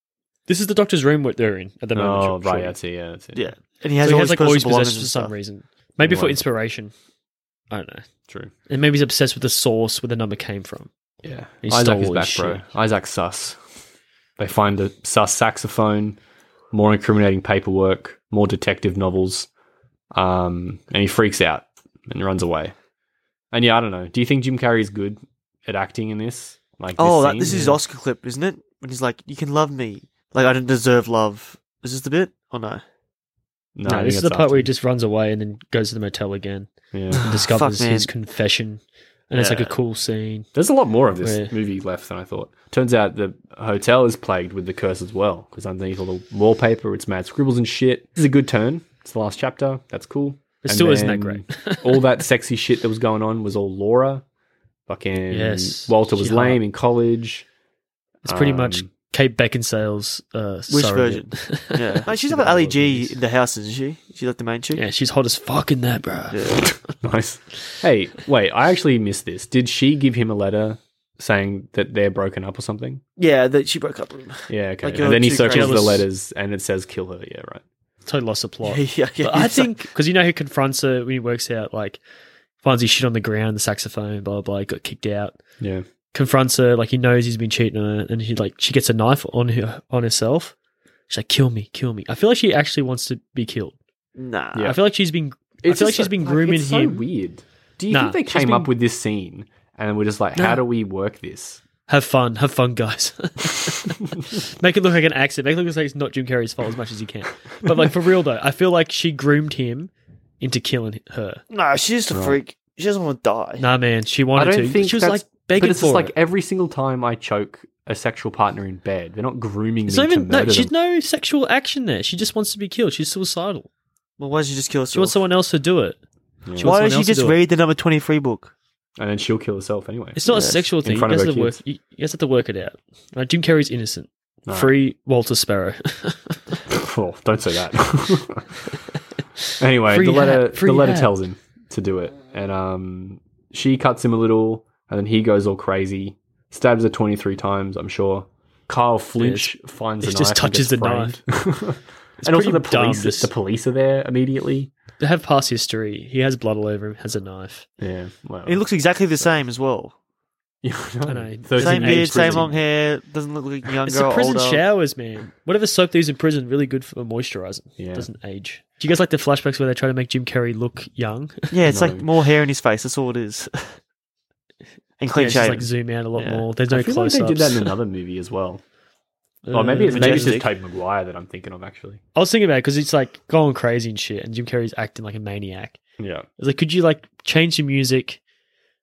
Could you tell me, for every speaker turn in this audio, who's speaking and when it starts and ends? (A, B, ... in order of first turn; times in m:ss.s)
0:00.5-0:02.8 A
0:02.0-0:03.4 B
0:03.4-0:05.3 C
0:04.0-0:06.9 A
0:06.0-0:06.4 B
0:07.7-0:08.1 A
0:08.7-0:10.9 A
0:11.2-0:13.6 B
0:11.6-0:12.6 A
0:14.4-0:16.2 B
0:16.7-0:19.5 B
0:20.1-0:22.7 B
0:23.5-0:27.7 B
0:27.0-0:32.8 C
0:27.4-0:27.8 A
0:33.8-0:34.7 B
0:33.8-0:40.5 A
0:36.9-0:37.2 B
0:37.1-0:38.1 C
0:39.4-0:39.7 C
0:40.5-0:54.2 B
0:41.2-0:41.5 A
0:50.6-0:52.0 A
0:54.9-0:57.5 B
0:55.3-0:56.6 A
0:58.2-0:58.9 B
0:58.2-1:03.1 A
1:00.7-1:04.8 C
1:02.1-1:03.1 B
1:04.8-1:06.7 A
1:06.3-1:06.7 C
1:07.0-1:13.0 B
1:13.2-1:16.0 C
1:14.5-1:17.6 B
1:15.3-1:16.0 A
1:18.1-1:22.0 A
1:18.6-1:19.7 C
1:22.6-1:25.4 A
1:25.6-1:25.8 B
1:26.1-1:30.6 A
1:31.1-1:33.8 A
1:34.2-1:34.7 C
1:34.5-1:34.8 B
1:34.6-1:37.0 A
1:35.6-1:41.6 B
1:37.9-1:38.7 A
1:40.4-1:40.6 A
1:41.9-1:51.4 A
1:51.5-1:53.6 C
1:52.1-1:52.4 B
1:53.6-1:56.1 A
1:54.4-2:00.7 B
1:59.9-2:03.7 A
2:04.2-2:05.2 C
2:04.9-2:06.0 A
2:06.5-2:06.8 B
2:06.6-2:07.4 A
2:06.6-2:08.5 C
2:09.0-2:10.2 B
2:10.2-2:16.6 A
2:10.3-2:10.6 C
2:10.8-2:11.6 B
2:14.5-2:14.7 B
2:16.7-2:18.5 B
2:19.6-2:34.7 B
2:19.9-2:21.1 A
2:29.2-2:29.5 A
2:30.0-2:31.2 A
2:32.2-2:33.3 A
2:35.0-2:37.7 A
2:37.8-2:38.6 B
2:38.5-2:39.9 C
2:40.6-2:42.6 B
2:41.1-2:42.5 A
2:41.6-2:44.6 C
2:43.9-2:51.5 A
2:47.8-2:48.1 B
2:51.5-2:53.8 C
2:51.7-2:52.0 B
2:55.0-2:56.4 C
2:55.2-2:57.7 A
2:56.7-2:58.6 B
2:59.4-3:00.4 A
2:59.5-3:02.0 B
2:59.9-3:00.5 C
3:02.2-3:05.8 A
3:06.0-3:06.3 B
3:06.4-3:08.2 A